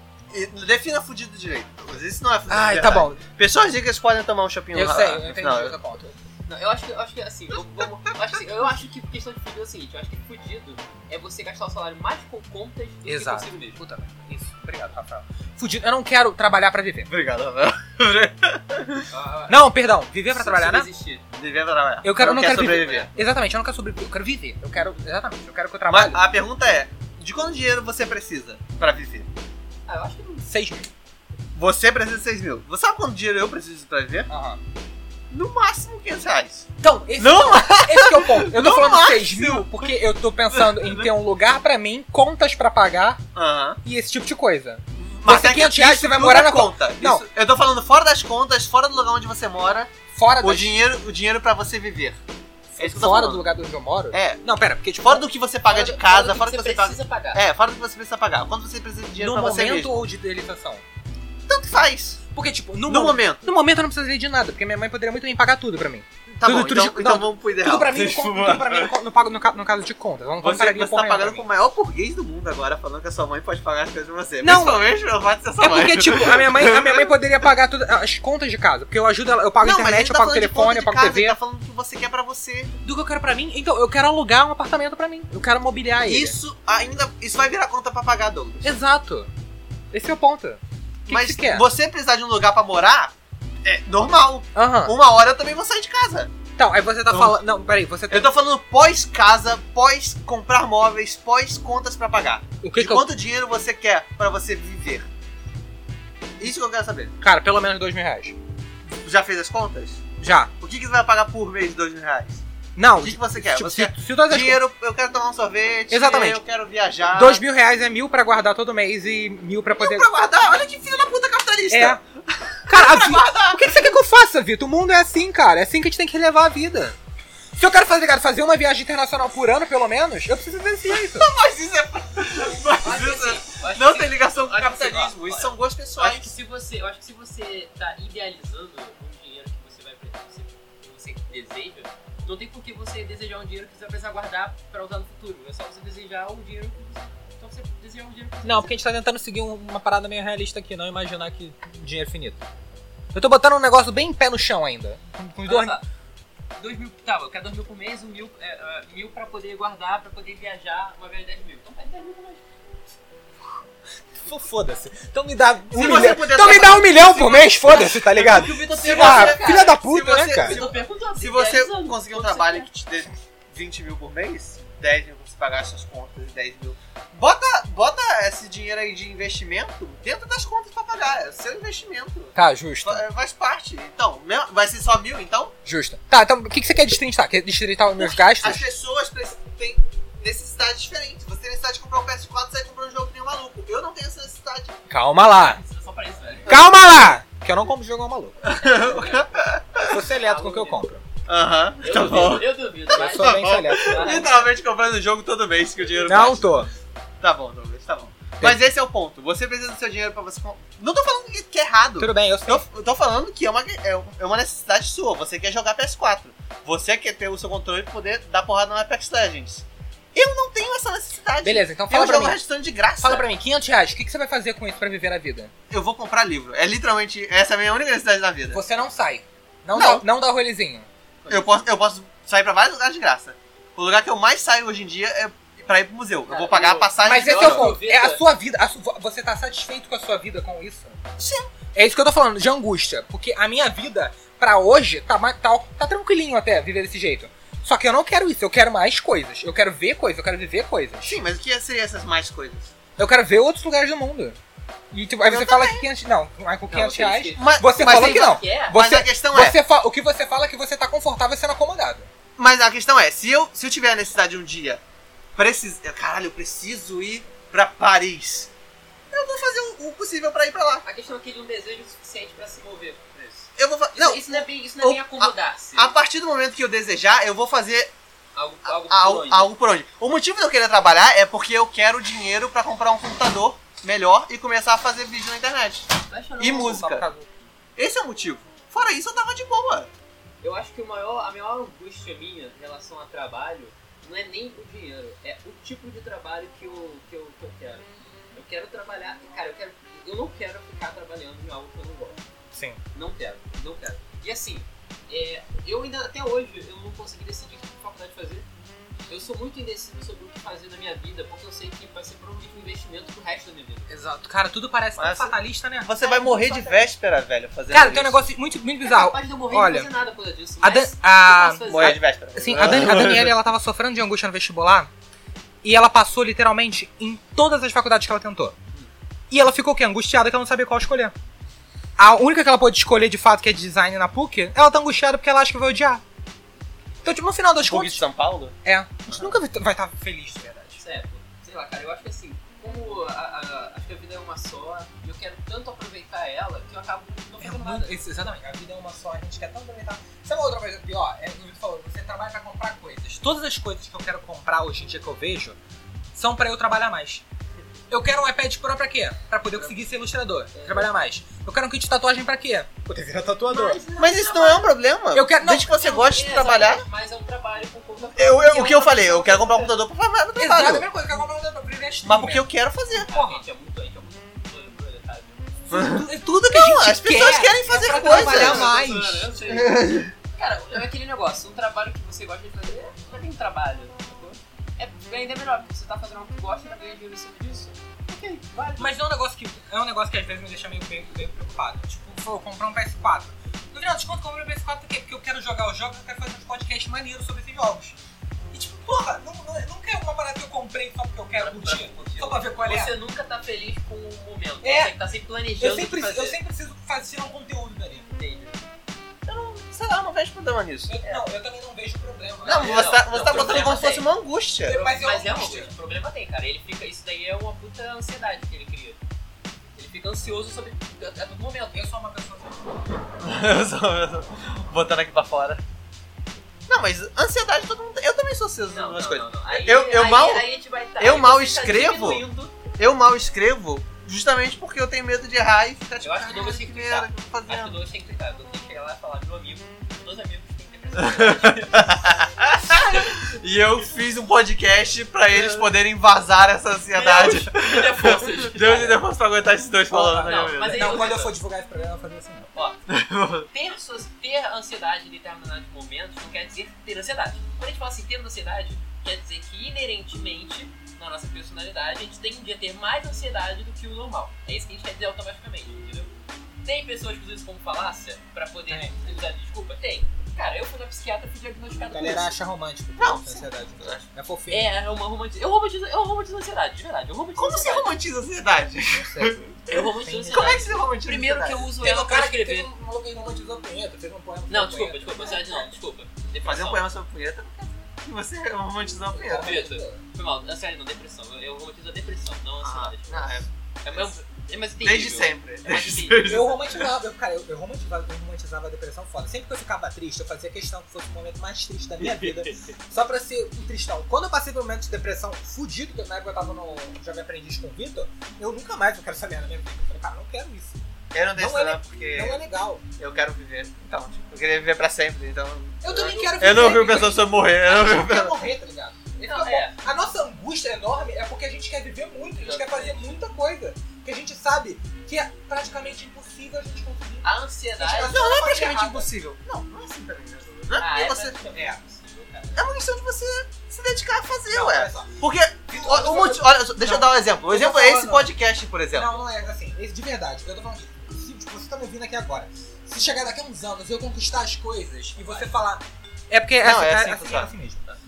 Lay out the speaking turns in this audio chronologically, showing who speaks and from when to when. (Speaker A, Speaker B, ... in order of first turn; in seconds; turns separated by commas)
Speaker A: 0.3-5.8, Speaker B: 2.5-3.2, Speaker B: 4.7-6.2, Speaker C: 6.5-13.8, Speaker B: 13.0-17.1, Speaker A: 17.1-19.1, Speaker C: 19.1-19.7, Speaker B: 19.5-20.9, Speaker C: 20.3-21.2, Speaker A: 21.3-23.1, Speaker B: 22.0-26.2, Speaker C: 22.8-23.1, Speaker A: 25.9-29.3, Speaker C: 29.9-30.5, Speaker B: 30.4-30.9, Speaker A: 31.5-34.3, Speaker B: 34.3-34.6, Speaker A: 35.3-40.0, Speaker B: 36.8-43.2, Speaker A: 40.5-41.1, Speaker A: 43.3-43.8, Speaker B: 43.8-47.2, Speaker A: 45.0-52.2, Speaker B: 50.1-50.8, Speaker B: 52.7-55.2, Speaker A: 52.8-53.5, Speaker A: 54.1-54.4, Speaker A: 55.0-60.0, Speaker C: 55.7-57.4, Speaker B: 59.2-60.8, Speaker A: 61.5-62.2, Speaker B: 62.3-71.5, Speaker A: 62.9-63.5, Speaker A: 66.3-68.9, Speaker A: 70.4-77.1, Speaker B: 74.4-74.9, Speaker B: 75.6-81.4, Speaker A: 79.6-82.7, Speaker B: 82.8-86.4, Speaker A: 86.0-88.7, Speaker B: 88.6-89.3, Speaker B: 89.9-91.7, Speaker A: 91.1-93.1, Speaker A: 93.6-96.3, Speaker B: 94.5-94.9, Speaker B: 96.6-98.3, Speaker A: 97.1-97.4, Speaker A: 98.1-105.1, Speaker B: 102.6-103.1, Speaker A: 106.4-107.1, Speaker B: 107.2-108.3, Speaker A: 108.9-110.1, Speaker B: 110.2-110.5, Speaker A: 110.6-112.4, Speaker B: 112.8-114.6, Speaker A: 113.0-117.4, Speaker B: 115.9-116.4, Speaker B: 117.1-120.1, Speaker A: 119.7-123.9, Speaker B: 121.7-122.0, Speaker B: 122.7-127.0, Speaker B: 127.5-131.3, Speaker A: 130.9-136.3, Speaker C: 132.8-148.8, Speaker B: 148.4-152.4, Speaker B: 153.1-155.8, Speaker C: 155.4-155.8, Speaker C: 156.6-162.4, Speaker B: 164.2-170.6, Speaker A: 165.7-185.5, Speaker C: 167.6-169.8, Speaker C: 170.4-172.7, Speaker B: 182.3-183.0, Speaker B: 185.7-188.7, Speaker A: 188.0-194.8, Speaker B: 194.9-195.6, Speaker C: 195.4-196.6, Speaker B: 196.5-198.5, Speaker A: 198.4-199.9, Speaker C: 198.6-200.8, Speaker B: 199.8-201.0, Speaker A: 201.2-206.7, Speaker C: 201.8-204.4, Speaker B: 202.9-204.4, Speaker B: 206.0-206.7, Speaker A: 207.2-223.3, Speaker B: 212.0-212.7, Speaker B: 221.4-222.4, Speaker B: 223.0-225.5, Speaker A: 225.7-228.6, Speaker B: 228.5-230.9, Speaker A: 229.7-230.0, Speaker C: 231.2-231.7, Speaker A: 231.3-237.7, Speaker C: 236.3-238.2, Speaker B: 237.0-241.0, Speaker A: 241.2-241.5, Speaker B: 241.7-251.2, Speaker A: 251.1-252.7, Speaker B: 253.0-254.4, Speaker B: 254.9-262.1, Speaker A: 255.2-255.8, Speaker C: 256.7-258.8, Speaker A: 257.4-259.6, Speaker A: 262.4-264.8, Speaker A: 265.4-268.5, Speaker A: 269.1-270.8, Speaker C: 270.8-275.9, Speaker A: 273.6-277.9, Speaker C: 278.3-279.5, Speaker A: 278.6-287.1, Speaker C: 286.1-287.0, Speaker B: 286.4-287.3, Speaker A: 287.8-289.9, Speaker C: 290.4-302.2, Speaker B: 302.5-302.8, Speaker C: 302.9-308.5, Speaker C: 309.1-313.9, Speaker B: 313.9-316.8, Speaker A: 315.0-318.2, Speaker B: 317.7-319.9, Speaker C: 318.8-322.0, Speaker B: 320.6-324.9, Speaker A: 321.6-323.3, Speaker B: 325.6-328.6, Speaker B: 329.3-331.1, Speaker B: 332.0-336.0, Speaker B: 337.0-338.0, Speaker A: 337.6-338.5, Speaker B: 338.6-340.8, Speaker C: 340.8-348.0, Speaker B: 347.4-355.6, Speaker B: 356.1-357.2, Speaker B: 357.9-363.8, Speaker C: 360.5-360.9, Speaker C: 363.5-364.7, Speaker A: 364.0-366.8, Speaker B: 365.1-365.9, Speaker C: 365.7-369.8, Speaker A: 368.1-370.9, Speaker B: 370.4-372.5, Speaker A: 372.0-373.1, Speaker C: 373.0-375.6, Speaker B: 373.1-373.4, Speaker B: 375.7-379.3, Speaker A: 375.7-378.9, Speaker C: 377.9-388.9, Speaker A: 379.5-380.1, Speaker B: 388.8-398.0, Speaker B: 398.5-402.9, Speaker C: 401.4-406.4, Speaker B: 404.6-404.9, Speaker B: 405.6-408.1, Speaker C: 408.1-408.7, Speaker A: 409.2-410.9, Speaker B: 410.9-413.6, Speaker C: 412.4-414.1, Speaker A: 412.4-414.8, Speaker B: 414.6-415.7, Speaker C: 414.7-419.0, Speaker C: 419.7-421.8, Speaker B: 421.7-422.6, Speaker A: 423.2-425.6, Speaker A: 426.7-430.4, Speaker C: 428.7-432.6, Speaker A: 431.0-432.2, Speaker A: 432.8-437.8, Speaker C: 436.0-443.1, Speaker A: 441.0-451.0, Speaker C: 445.3-445.6, Speaker C: 446.9-449.0, Speaker B: 449.9-452.5, Speaker C: 450.2-451.4, Speaker A: 452.9-453.5, Speaker C: 453.5-472.3, Speaker B: 468.7-468.9, Speaker B: 471.9-474.7, Speaker A: 473.0-474.0, Speaker C: 474.5-477.9, Speaker A: 477.4-479.7, Speaker B: 478.9-480.8, Speaker C: 479.7-482.7, Speaker A: 480.3-481.7, Speaker B: 481.8-485.7, Speaker C: 484.5-486.9, Speaker A: 486.4-489.6, Speaker B: 489.1-490.0, Speaker C: 489.3-496.4, Speaker A: 492.6-494.1, Speaker A: 494.8-496.9, Speaker B: 496.2-510.8, Speaker C: 502.0-502.7, Speaker A: 511.1-512.4, Speaker B: 511.3-512.8, Speaker A: 513.0-518.4, Speaker B: 515.8-529.1, Speaker C: 516.0-516.7, Speaker C: 519.2-519.7, Speaker C: 522.4-523.2, Speaker C: 527.2-528.2, Speaker A: 528.0-531.4, Speaker C: 530.7-532.7, Speaker B: 531.5-531.8, Speaker A: 532.5-539.2, Speaker B: 534.5-538.3, Speaker B: 538.9-547.8, Speaker A: 546.6-547.5